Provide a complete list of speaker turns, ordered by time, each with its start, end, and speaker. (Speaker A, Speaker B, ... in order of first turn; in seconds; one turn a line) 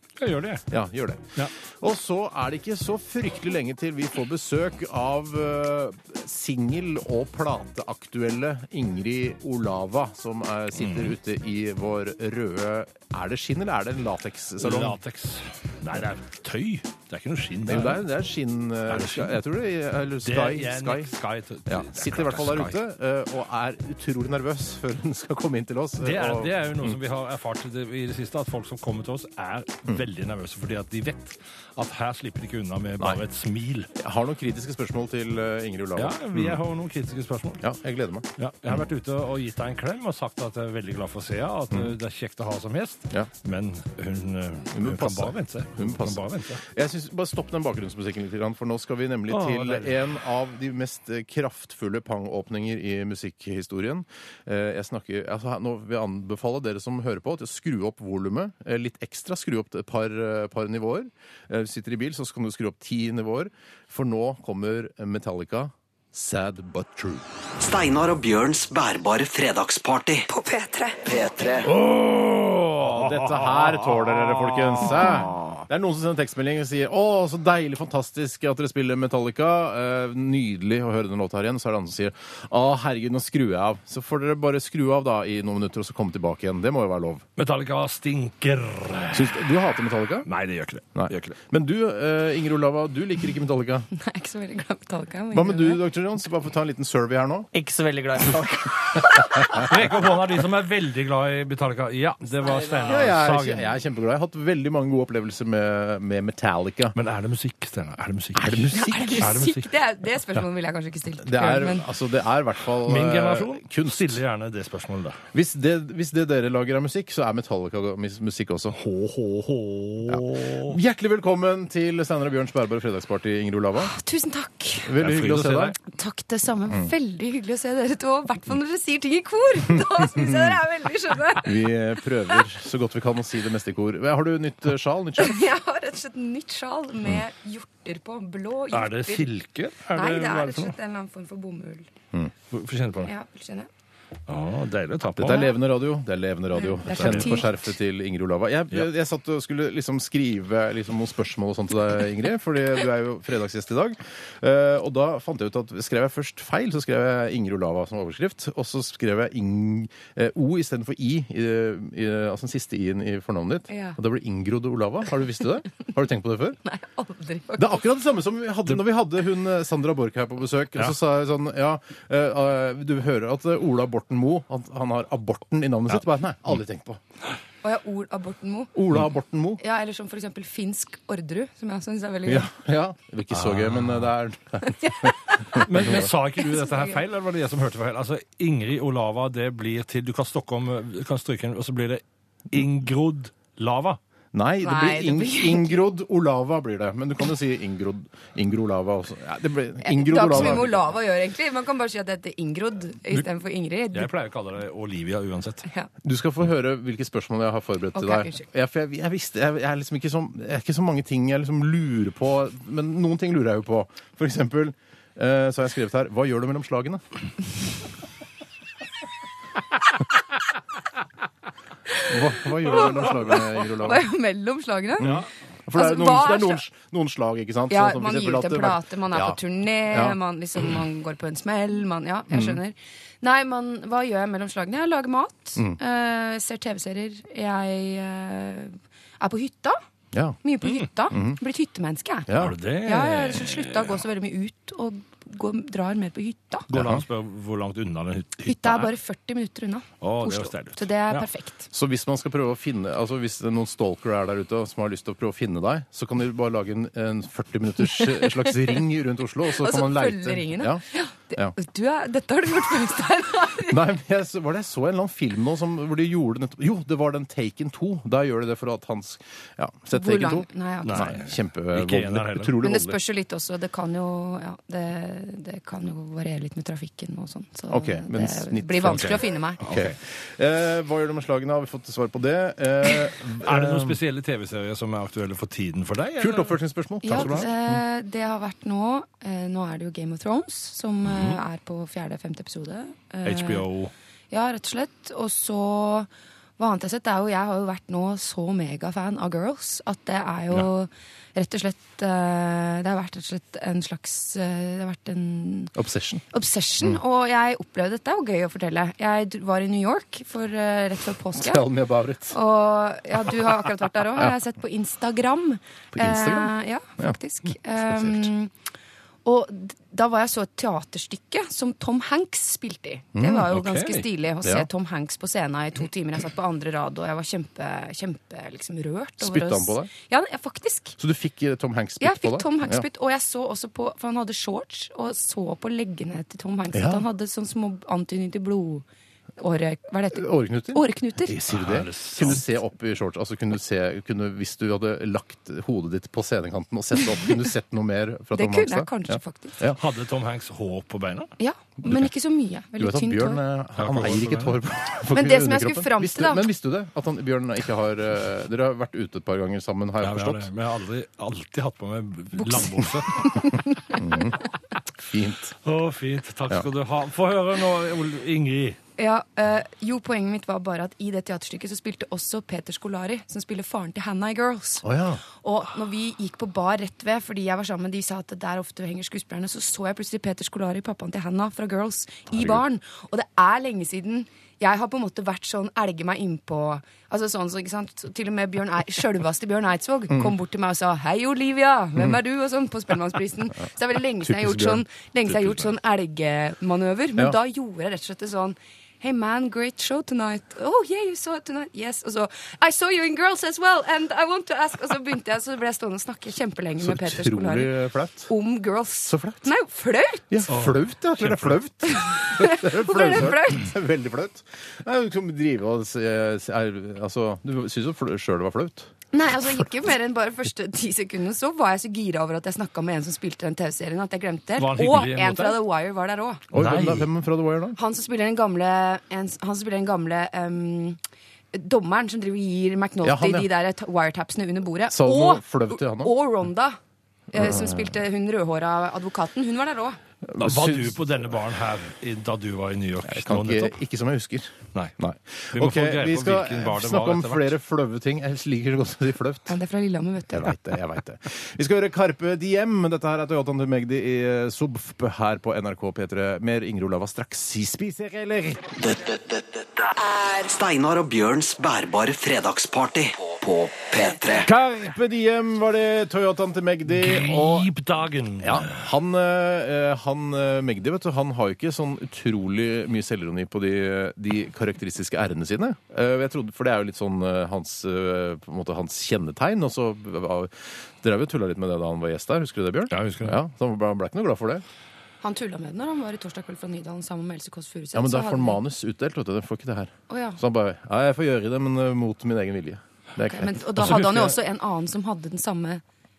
Speaker A: 0.2-0.7
Speaker B: 0.7-15.0
Speaker A: 10.8-11.1
Speaker A: 14.6-18.0
Speaker B: 17.7-21.1
Speaker A: 18.9-19.4
Speaker A: 20.2-22.8
Speaker B: 21.7-27.0
Speaker A: 26.0-33.9
Speaker B: 34.0-36.6
Speaker A: 36.0-37.6
Speaker B: 37.6-38.3
Speaker A: 38.4-46.6
Speaker B: 44.7-67.2
Speaker A: 49.3-50.0
Speaker C: 67.6-70.3
Speaker D: 70.3-71.1
Speaker C: 71.1-71.6
Speaker A: 71.6-75.6
Speaker B: 72.8-87.3
Speaker A: 87.4-89.5
Speaker B: 89.1-90.3
Speaker A: 90.2-91.4
Speaker B: 91.0-93.9
Speaker D: 93.9-95.8
Speaker B: 95.3-97.5
Speaker E: 97.5-99.6
Speaker A: 99.5-103.7
Speaker E: 102.5-102.9
Speaker B: 102.8-107.0
Speaker A: 106.9-109.7
Speaker B: 108.3-109.4
Speaker D: 108.7-111.9
Speaker B: 111.2-114.2
Speaker A: 112.8-115.2
Speaker B: 115.3-118.8
Speaker A: 118.7-120.8
Speaker B: 120.1-123.9
Speaker D: 123.8-125.0
Speaker B: 124.8-125.8
Speaker A: 125.0-125.8
Speaker D: 125.9-131.6
Speaker B: 130.2-130.4
Speaker B: 131.4-135.5
Speaker D: 135.2-139.3
Speaker A: 138.7-140.8
Speaker D: 139.9-141.9
Speaker A: 142.5-143.1
Speaker D: 143.0-143.7
Speaker A: 144.3-145.5
Speaker B: 145.2-166.6
Speaker D: 146.6-147.6
Speaker A: 146.9-147.4
Speaker D: 163.7-164.0
Speaker D: 166.7-167.8
Speaker B: 167.6-177.0
Speaker D: 177.6-178.8
Speaker B: 178.8-179.6
Speaker D: 179.6-182.5
Speaker B: 182.3-186.1
Speaker A: 183.3-184.0
Speaker D: 184.7-185.7
Speaker A: 185.5-194.0
Speaker D: 186.4-187.0
Speaker B: 194.3-200.8
Speaker D: 194.6-195.9
Speaker D: 199.8-204.1
Speaker A: 203.9-205.7
Speaker B: 206.0-217.0
Speaker D: 208.0-208.4
Speaker B: 222.1-224.1
Speaker D: 222.7-225.2
Speaker B: 225.0-230.2
Speaker D: 225.7-226.6
Speaker D: 227.7-239.8
Speaker B: 232.3-232.6
Speaker B: 240.1-240.4
Speaker D: 240.4-246.7
Speaker B: 241.1-241.4
Speaker B: 242.3-242.5
Speaker A: 242.4-244.0
Speaker A: 246.7-248.9
Speaker B: 246.7-247.0
Speaker D: 248.4-251.7
Speaker A: 250.0-251.3
Speaker B: 251.7-260.8
Speaker D: 258.0-258.6
Speaker D: 259.5-263.8
Speaker B: 263.6-273.0
Speaker D: 269.9-271.2
Speaker A: 270.8-272.6
Speaker D: 272.6-279.7
Speaker B: 277.7-284.0
Speaker A: 278.9-279.9
Speaker A: 283.4-287.5
Speaker B: 286.2-287.8
Speaker D: 287.0-293.6
Speaker A: 291.0-291.4
Speaker A: 293.2-293.9
Speaker D: 294.3-305.7
Speaker B: 305.8-306.2
Speaker D: 306.3-311.6
Speaker B: 311.4-312.4
Speaker D: 312.3-318.5
Speaker B: 315.9-317.2
Speaker B: 317.8-318.3
Speaker D: 319.2-331.0
Speaker B: 323.2-323.5
Speaker A: 323.5-324.1
Speaker B: 324.4-324.7
Speaker B: 329.2-329.9
Speaker B: 331.0-332.9
Speaker D: 332.0-338.9
Speaker B: 336.7-337.0
Speaker D: 339.4-341.4
Speaker B: 340.1-349.8
Speaker A: 341.5-342.4
Speaker D: 348.3-349.6
Speaker A: 349.8-351.3
Speaker D: 351.4-353.4
Speaker B: 351.8-352.1
Speaker B: 352.8-360.5
Speaker A: 353.8-354.6
Speaker D: 355.1-356.5
Speaker A: 360.0-363.5
Speaker D: 362.4-364.2
Speaker B: 363.9-364.4
Speaker B: 365.0-365.6
Speaker A: 365.6-368.8
Speaker D: 369.0-407.8
Speaker B: 374.8-375.2
Speaker B: 382.3-382.6
Speaker B: 394.2-394.8
Speaker B: 406.8-408.3
Speaker D: 408.3-410.4
Speaker B: 409.1-409.5
Speaker B: 410.3-418.9
Speaker A: 410.5-411.5
Speaker D: 411.9-413.7
Speaker D: 419.1-426.5
Speaker A: 424.6-425.6
Speaker B: 426.5-427.8
Speaker A: 426.5-427.1
Speaker D: 427.8-431.0
Speaker D: 431.5-436.8
Speaker B: 433.0-433.5
Speaker B: 434.9-436.1
Speaker D: 437.3-440.0
Speaker B: 437.3-437.9
Speaker B: 440.3-441.0
Speaker A: 440.4-443.8
Speaker B: 443.0-449.6
Speaker A: 445.5-447.5
Speaker D: 449.5-450.6
Speaker B: 450.3-458.8
Speaker C: 458.8-464.5
Speaker B: 464.4-467.7
Speaker A: 466.9-468.8
Speaker B: 468.4-484.6
Speaker A: 482.9-483.4
Speaker D: 485.2-488.6
Speaker B: 487.9-494.0
Speaker D: 490.1-490.4
Speaker D: 493.3-495.8
Speaker A: 493.8-494.4